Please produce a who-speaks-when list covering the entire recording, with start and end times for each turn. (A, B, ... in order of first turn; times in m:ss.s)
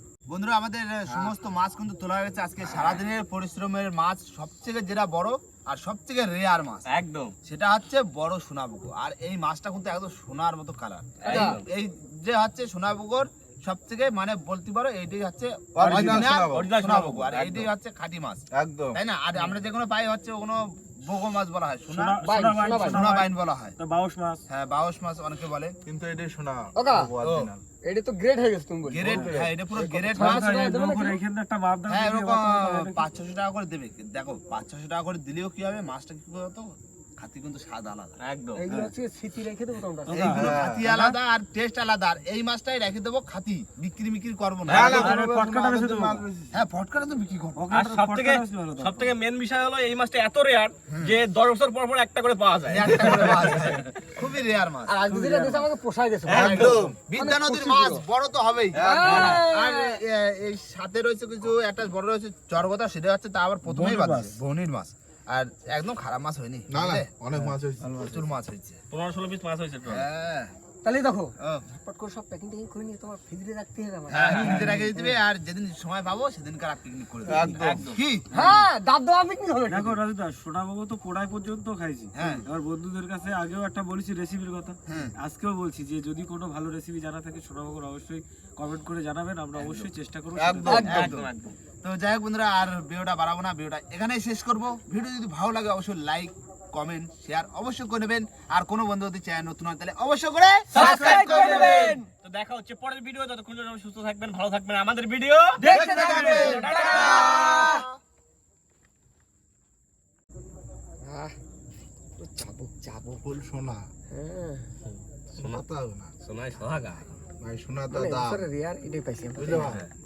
0:00.3-0:06.9 A
0:02.6-0:03.0 B
0:06.9-0:07.3 B
0:07.4-0:22.2 A
0:11.2-0:11.6 C
0:11.2-0:11.6 B
0:15.7-0:16.6 D
0:15.8-0:16.2 E
0:16.2-0:17.7 B
0:18.5-0:19.0 D
0:21.9-0:24.4 E
0:22.2-0:23.0 C
0:22.8-0:23.8 A
0:24.5-0:25.8 A
0:25.8-0:27.6 D
0:26.8-0:27.1 C
0:27.2-0:27.5 A
0:27.8-0:31.2 C
0:28.8-0:30.6 A
0:29.0-0:29.5 D
0:30.1-0:33.0 E
0:31.9-0:38.2 A
0:38.2-0:38.6 B
0:38.6-0:40.3 C
0:40.1-0:40.5 E
0:40.1-0:40.8 D
0:40.1-0:45.2 A
0:44.7-0:46.6 D
0:44.7-0:45.1 B
0:45.0-0:46.3 E
0:46.5-0:47.6 A
0:47.6-0:49.1 E
0:47.7-0:53.9 B
0:50.9-0:51.2 A
0:52.7-0:55.0 A
0:54.9-0:58.0 C
0:55.1-0:55.7 E
0:56.2-0:56.9 B
0:56.3-1:07.1 A
0:56.4-0:56.9 D
0:58.8-0:59.1 D
0:58.8-1:00.0 C
1:03.8-1:04.4 D
1:06.7-1:08.3 D
1:07.8-1:08.8 A
1:08.9-1:10.1 B
1:09.8-1:10.5 A
1:10.8-1:15.2 C
1:14.1-1:18.3 A
1:14.1-1:14.7 B
1:14.4-1:14.9 E
1:17.2-1:17.8 D
1:17.5-1:18.0 B
1:18.3-1:20.0 C
1:19.7-1:31.1 E
1:22.1-1:22.4 A
1:24.9-1:25.1 A
1:29.5-1:29.9 A
1:30.3-1:30.9 D
1:30.6-1:31.1 C
1:30.6-1:42.0 A
1:30.8-1:31.6 B
1:40.7-1:47.8 B
1:40.8-1:42.0 C
1:45.6-1:47.8 A
1:45.6-1:47.8 C
1:45.6-1:46.4 E
1:51.0-1:51.3 C
1:52.2-1:53.2 C
1:53.2-1:53.9 D
1:54.1-1:54.7 C
1:54.8-1:55.6 B
1:55.4-1:56.1 D
1:56.2-1:57.1 B
1:57.4-1:58.4 D
1:57.9-1:59.8 C
1:59.4-1:59.8 D
1:59.5-1:59.9 B